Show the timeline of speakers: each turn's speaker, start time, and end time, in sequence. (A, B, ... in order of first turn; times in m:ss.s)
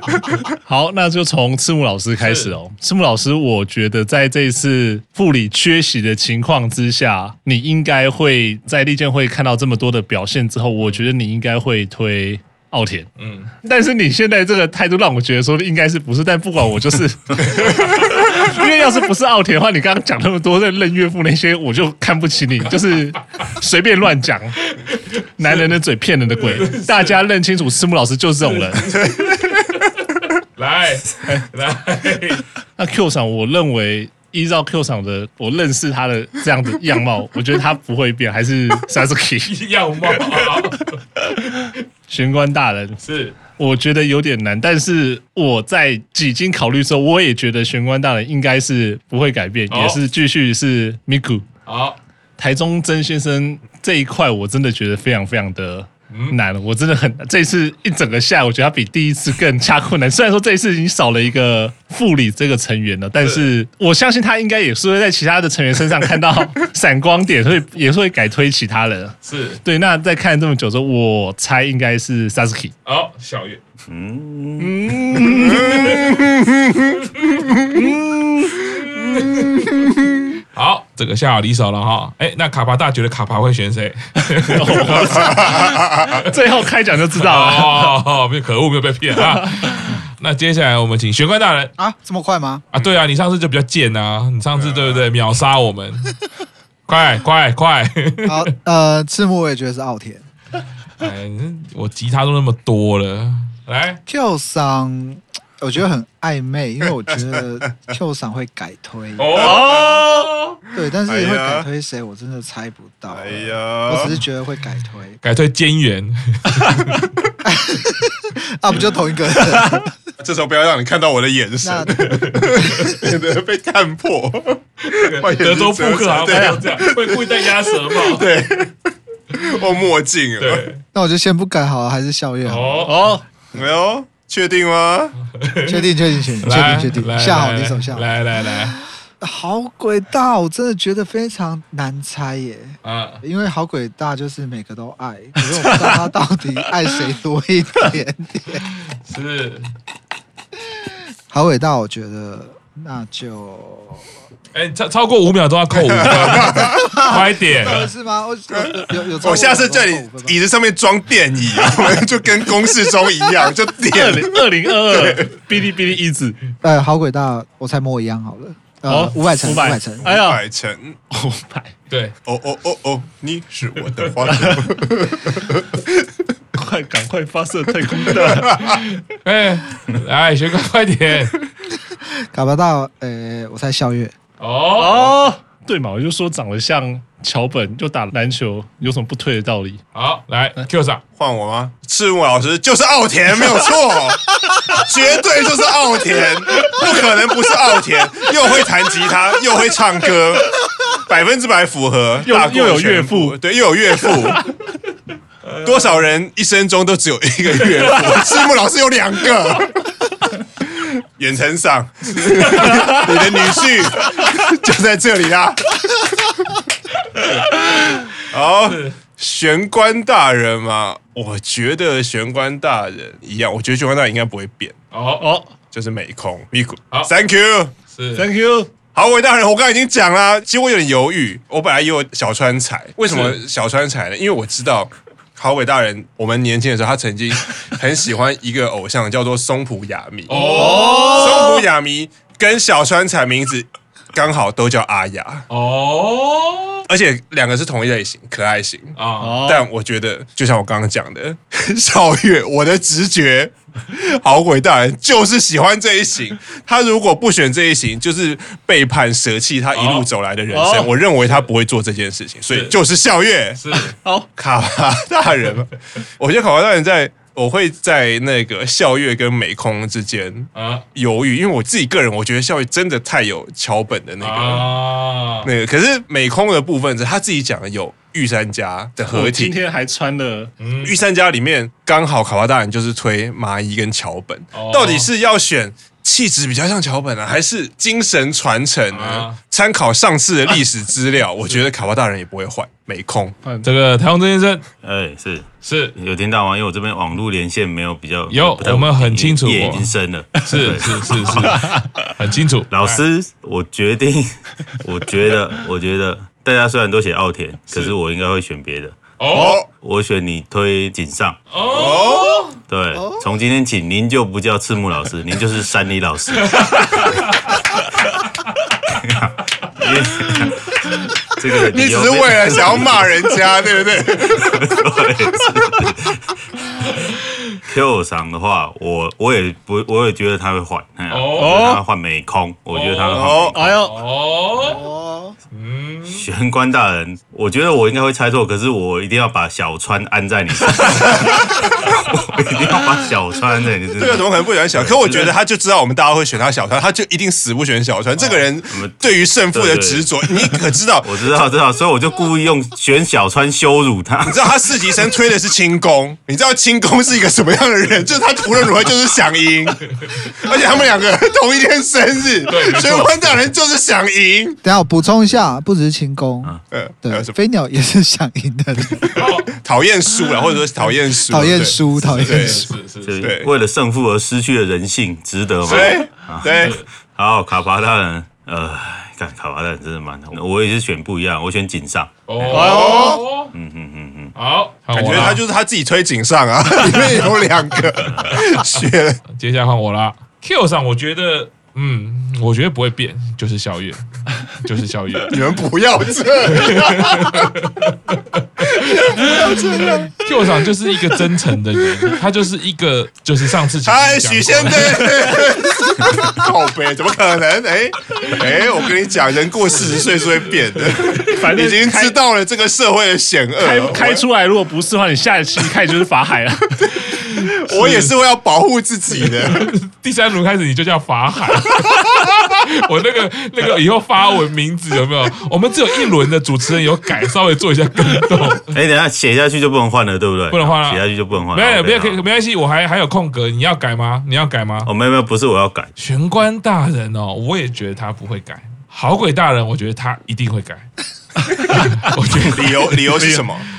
0:00.7-0:13.1 A
0:02.2-0:02.5 B
0:13.2-0:13.5 B
0:13.6-0:24.7 A
0:17.6-0:18.5 B
0:24.7-0:25.7 B
0:25.4-0:28.9 A
0:26.4-0:27.2 B
0:28.4-0:29.5 B
0:28.9-0:29.6 C
0:30.6-0:32.4 B
0:32.8-0:40.8 A
0:39.5-0:41.0 B
0:41.3-0:51.4 A
0:43.0-0:43.4 B
0:49.7-0:50.0 B
0:51.7-0:52.0 B
0:52.4-1:12.7 A
0:56.1-0:56.4 B
1:09.2-1:09.6 B
1:12.8-1:13.6 B
1:13.9-1:15.4 D
1:14.6-1:16.0 A
1:15.5-1:16.2 B
1:15.5-1:17.8 C
1:17.7-1:18.7 A
1:18.7-1:19.9 B
1:20.5-1:26.3 B
1:24.4-1:28.0 A
1:25.3-1:26.2 C
1:27.2-1:31.7 B
1:29.1-1:29.9 A
1:31.8-1:32.6 E
1:32.7-1:36.2 B
1:34.6-1:35.0 C
1:36.9-1:38.4 B
1:38.2-1:40.2 E
1:41.0-1:44.0 B
1:44.1-1:49.4 E
1:49.2-1:50.6 B
1:49.4-1:50.3 A
1:50.7-1:55.2 E
1:51.1-1:51.7 C
1:53.1-1:54.2 C
1:55.2-1:57.1 B
1:57.4-1:59.9 E
1:59.5-1:59.8 A
2:00.2-2:08.7 C
2:01.6-2:02.0 E
2:02.0-2:02.8 B
2:02.6-2:02.9 E
2:04.8-2:08.3 B
2:06.3-2:06.6 A
2:09.3-2:10.7 C
2:10.4-2:10.8 B
2:10.9-2:12.8 E
2:12.5-2:13.2 B
2:12.8-2:13.2 A
2:13.5-2:15.1 C
2:15.2-2:18.8 B
2:15.7-2:18.1 E
2:19.2-2:28.6 E
2:22.8-2:23.2 B
2:25.6-2:26.0 A
2:28.6-2:29.7 B
2:31.3-2:34.0 E
2:34.5-2:37.9 B
2:35.8-2:37.2 C
2:36.4-2:40.4 E
2:38.6-2:45.3 C
2:43.9-2:46.4 A
2:46.6-2:50.1 E
2:48.9-2:50.4 A
2:50.0-2:51.0 C
2:51.1-2:51.7 A
2:51.9-2:52.2 B
2:52.3-2:55.8 C
2:54.3-2:54.6 A
2:56.5-2:58.7 A
2:58.6-3:01.4 B
3:01.9-3:04.1 E
3:04.4-3:05.2 B
3:04.8-3:09.8 A
3:09.9-3:11.0 B
3:11.2-3:24.5 C
3:22.2-3:23.4 A
3:25.5-3:25.9 B
3:25.6-3:29.9 C
3:31.2-3:35.8 C
3:32.1-3:33.1 B
3:37.2-3:38.0 B
3:38.3-3:44.8 C
3:38.6-3:39.0 B
3:44.9-3:45.3 B
3:45.2-3:45.6 A
3:45.7-3:47.7 C
3:47.9-3:48.3 B
3:48.2-3:48.7 A
3:48.9-4:05.5 C
3:53.1-3:53.4 B
4:00.3-4:01.5 B
4:00.3-4:01.6 A
4:05.5-4:06.8 B
4:06.9-4:23.6 C
4:09.0-4:09.4 B
4:09.2-4:09.7 A
4:19.7-4:20.1 B
4:20.5-4:20.9 A
4:22.5-4:22.8 B
4:23.6-4:24.0 B
4:24.0-4:24.3 A
4:24.4-4:34.7 C
4:30.6-4:30.8 B
4:34.2-4:35.5 B
4:35.4-4:39.6 C
4:39.1-4:40.5 A
4:40.6-4:41.0 B
4:40.8-4:53.4 C
4:44.5-4:45.1 B
4:48.9-4:49.4 B
4:53.6-4:54.6 B
4:54.8-5:01.7 D
4:55.6-4:56.0 B
4:58.3-5:03.0 B
5:01.6-5:02.1 A
5:02.7-5:09.0 D
5:09.2-5:09.6 B
5:09.3-5:09.7 C
5:09.7-5:11.4 D
5:11.5-5:12.6 B
5:11.7-5:12.4 C
5:12.7-5:17.2 D
5:13.0-5:13.2 E
5:16.4-5:17.6 B
5:18.9-5:23.2 D
5:21.6-5:24.6 C
5:24.4-5:26.4 D
5:26.8-5:27.6 B
5:27.7-5:33.8 D
5:31.1-5:31.7 B
5:31.4-5:31.8 A
5:32.7-5:34.8 B
5:33.1-5:33.6 C
5:33.6-5:34.0 A
5:34.6-5:35.4 E
5:35.5-5:36.2 B
5:36.1-5:45.4 D
5:44.0-5:51.2 C
5:48.2-5:54.8 D
5:54.3-6:04.6 C
6:02.5-6:03.3 B
6:04.6-6:09.2 E
6:06.7-6:07.3 C
6:09.2-6:09.5 B
6:09.5-6:12.6 C
6:11.3-6:12.7 E
6:11.6-6:13.3 B
6:13.0-6:22.9 D
6:13.2-6:13.5 C
6:15.6-6:16.8 C
6:15.6-6:16.9 B
6:22.3-6:23.5 B
6:22.5-6:23.2 A
6:22.6-6:23.2 C
6:23.5-6:24.4 D
6:24.4-6:25.4 B
6:24.9-6:29.2 C
6:28.3-6:28.8 B
6:29.3-6:35.4 B
6:35.3-6:37.5 C
6:36.5-6:45.1 B
6:38.8-6:40.1 C
6:43.8-6:54.2 C
6:50.8-6:51.4 B
6:51.3-6:52.2 A
6:53.6-6:56.9 A
6:56.9-6:58.1 B
6:57.6-6:59.7 C
6:59.2-7:08.8 B
7:08.7-7:12.2 D
7:10.5-7:14.9 B
7:14.8-7:15.9 D
7:16.0-7:20.9 B
7:21.5-7:22.1 A
7:21.5-7:23.0 B
7:22.4-7:23.7 C
7:23.1-7:23.5 A